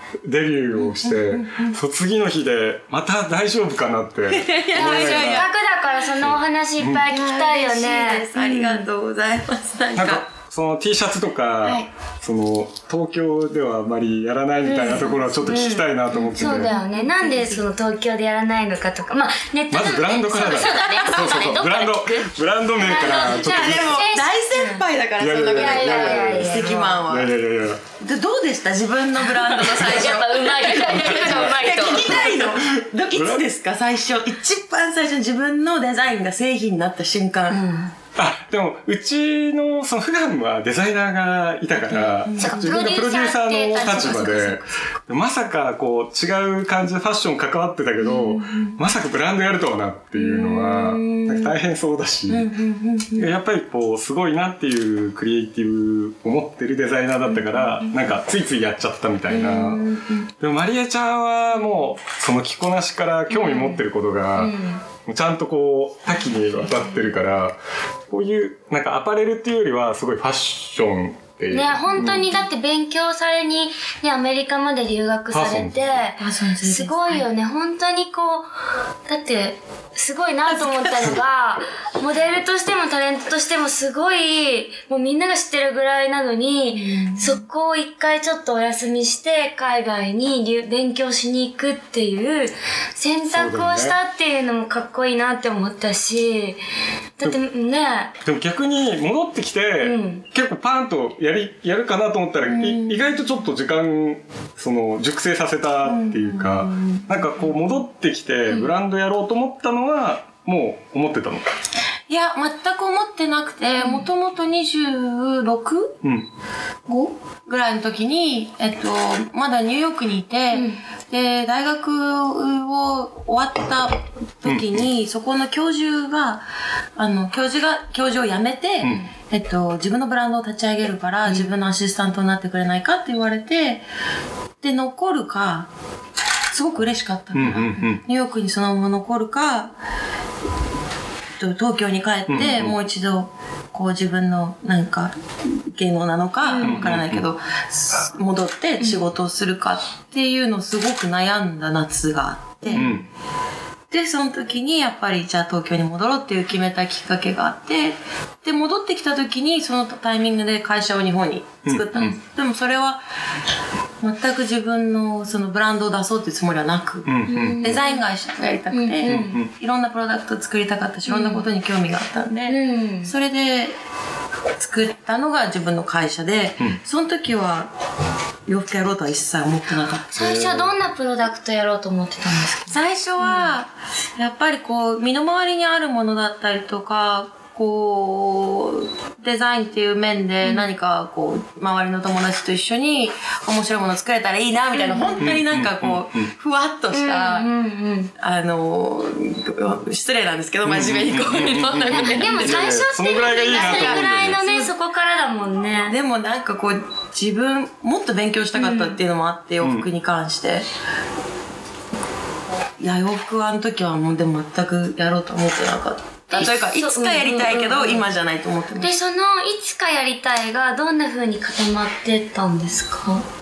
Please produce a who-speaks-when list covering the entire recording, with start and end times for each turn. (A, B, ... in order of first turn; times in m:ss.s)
0:00.2-0:05.5 A
0:00.8-0:01.8 B
0:04.3-0:05.5 B
0:04.7-0:08.8 C
0:06.2-0:07.0 A
0:07.1-0:10.2 B
0:10.0-0:16.7 A
0:14.7-0:24.8 C
0:16.1-0:17.6 B
0:19.7-0:24.0 A
0:20.4-0:21.5 B
0:23.0-0:27.3 B
0:25.2-0:27.8 A
0:25.5-0:27.0 C
0:28.0-0:37.6 B
0:29.5-0:32.3 C
0:30.9-0:33.5 A
0:37.5-0:37.9 C
0:38.2-0:52.5 A
0:41.9-0:42.9 B
0:42.4-0:44.6 C
0:48.0-0:48.8 B
0:50.2-0:51.5 B
0:52.3-0:53.3 B
0:53.2-0:59.8 A
0:59.3-1:00.3 B
1:00.4-1:04.5 A
1:03.3-1:03.8 C
1:04.4-1:04.8 C
1:05.1-1:12.3 A
1:06.3-1:07.1 B
1:11.5-1:18.5 C
1:12.0-1:12.3 B
1:15.3-1:16.0 A
1:16.2-1:17.2 B
1:19.1-1:36.6 C
1:20.5-1:21.2 B
1:26.7-1:27.4 B
1:33.3-1:34.0 A
1:37.2-1:38.1 C
1:38.2-1:51.5 A
1:39.8-1:40.2 C
1:42.4-1:43.0 B
1:45.8-1:47.3 B
1:52.1-1:56.0 B
1:53.8-1:54.1 C
1:56.9-2:06.4 B
2:00.5-2:00.8 C
2:04.4-2:04.8 A
2:07.0-2:13.8 B
2:11.3-2:11.5 C
2:14.6-2:15.7 B
2:16.5-2:19.8 B
2:17.3-2:18.0 A
2:21.4-2:32.9 B
2:22.3-2:22.8 A
2:26.4-2:26.9 C
2:26.6-2:27.2 A
2:32.7-2:33.0 C
2:32.7-2:33.0 A
2:33.9-2:43.0 B
2:41.7-2:42.2 A
2:44.0-2:53.8 B
2:47.1-2:47.8 A
2:47.3-2:48.0 C
2:48.7-2:49.4 C
2:49.1-2:49.5 A
2:51.1-2:51.5 C
2:52.5-2:53.1 C
2:54.6-2:57.7 B
2:58.5-3:00.2 B
3:00.1-3:03.5 C
3:00.2-3:00.7 A
3:02.7-3:17.5 B
3:14.7-3:15.2 C
3:15.2-3:16.2 A
3:16.9-3:18.1 C
3:18.2-3:22.8 B
3:20.6-3:24.4 A
3:21.9-3:26.0 C
3:23.4-3:24.7 B
3:25.9-3:30.7 B
3:28.6-3:29.0 C
3:29.6-3:29.9 A
3:32.8-3:38.9 B
3:36.3-3:38.1 C
3:38.8-3:43.2 C